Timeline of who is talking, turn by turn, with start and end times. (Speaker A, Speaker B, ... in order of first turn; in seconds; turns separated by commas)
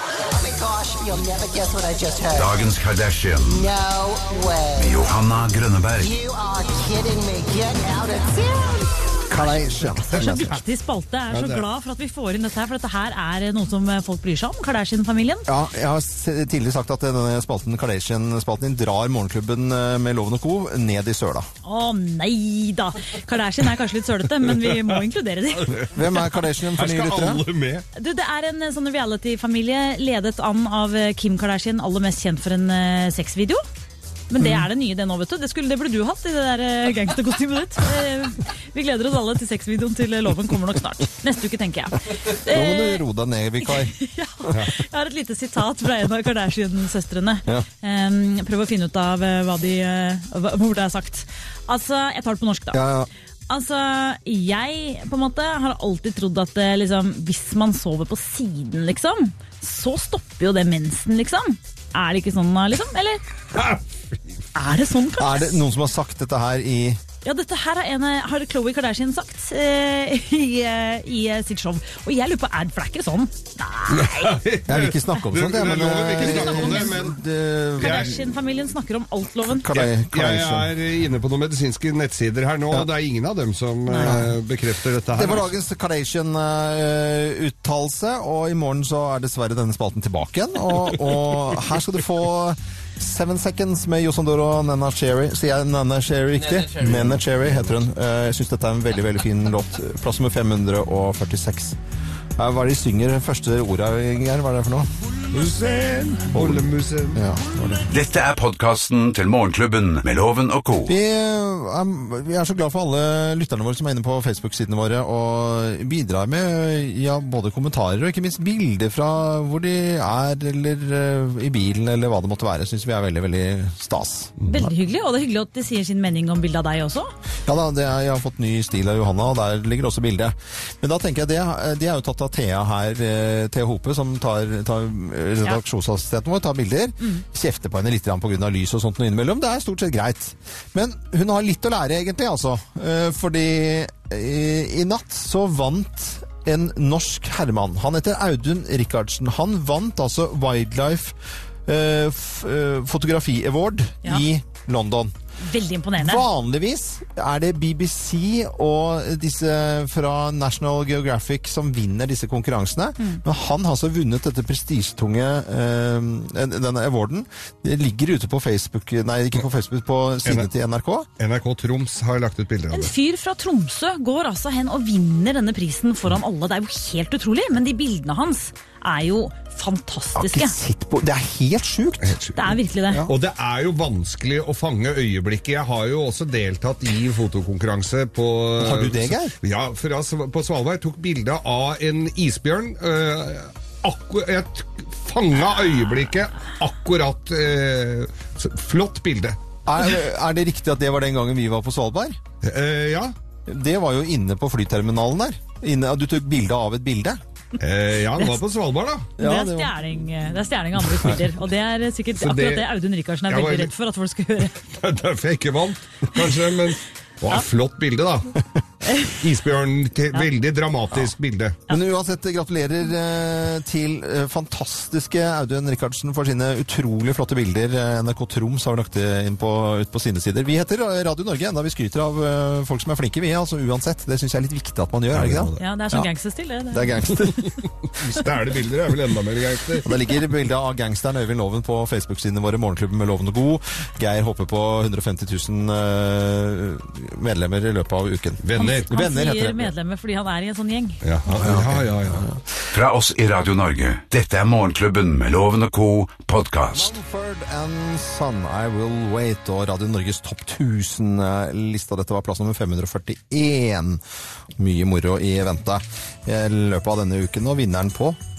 Speaker A: 0.3-2.8, Speaker B: 2.3-3.6, Speaker A: 3.4-5.1, Speaker B: 4.8-6.2, Speaker A: 5.9-8.9, Speaker C: 9.3-10.5, Speaker D: 10.1-15.5, Speaker E: 10.1-10.6, Speaker E: 11.3-11.7, Speaker C: 15.5-21.5, Speaker D: 21.6-25.8, Speaker E: 24.5-24.9, Speaker E: 25.7-26.2, Speaker C: 25.9-27.4, Speaker E: 26.8-27.9, Speaker D: 27.9-33.6, Speaker D: 34.3-43.0, Speaker C: 34.4-34.7, Speaker C: 42.2-44.6, Speaker D: 43.7-52.9, Speaker C: 52.7-53.1, Speaker D: 53.5-63.2, Speaker E: 63.5-63.8, Speaker D: 64.5-65.6, Speaker C: 65.2-67.0, Speaker D: 67.2-74.4, Speaker E: 73.9-77.2, Speaker C: 74.7-78.2, Speaker D: 76.2-77.0, Speaker E: 77.8-78.1, Speaker D: 77.8-79.7, Speaker C: 79.5-80.7, Speaker E: 79.7-85.5, Speaker D: 83.9-84.2, Speaker C: 84.0-84.3, Speaker C: 85.1-101.8, Speaker E: 96.8-97.2, Speaker C: 102.4-104.9, Speaker E: 105.3-107.2, Speaker C: 106.3-107.9, Speaker B: 107.9-110.9, Speaker C: 110.9-124.4, Speaker D: 124.5-127.1, Speaker C: 127.5-155.1, Speaker D: 155.4-156.3, Speaker C: 156.0-171.1, Speaker E: 171.2-172.9, Speaker D: 172.7-180.6, Speaker C: 180.2-182.2, Speaker E: 182.0-199.4, Speaker D: 182.4-183.1, Speaker C: 188.6-189.3, Speaker C: 199.7-202.2, Speaker E: 202.4-203.1, Speaker C: 203.5-207.2, Speaker E: 207.6-209.1, Speaker C: 209.2-209.8, Speaker D: 209.2-214.7, Speaker E: 212.2-212.7, Speaker E: 213.3-213.7, Speaker E: 214.7-218.3, Speaker D: 218.8-219.2, Speaker E: 219.1-221.6, Speaker C: 221.7-236.1, Speaker E: 235.1-235.6, Speaker D: 235.6-237.5, Speaker C: 236.7-237.4, Speaker E: 238.0-239.9, Speaker C: 239.8-249.7, Speaker E: 248.4-248.9, Speaker D: 248.6-251.0, Speaker E: 251.0-252.3, Speaker C: 251.3-252.4, Speaker B: 252.7-256.9, Speaker C: 256.7-264.0, Speaker C: 264.6-268.2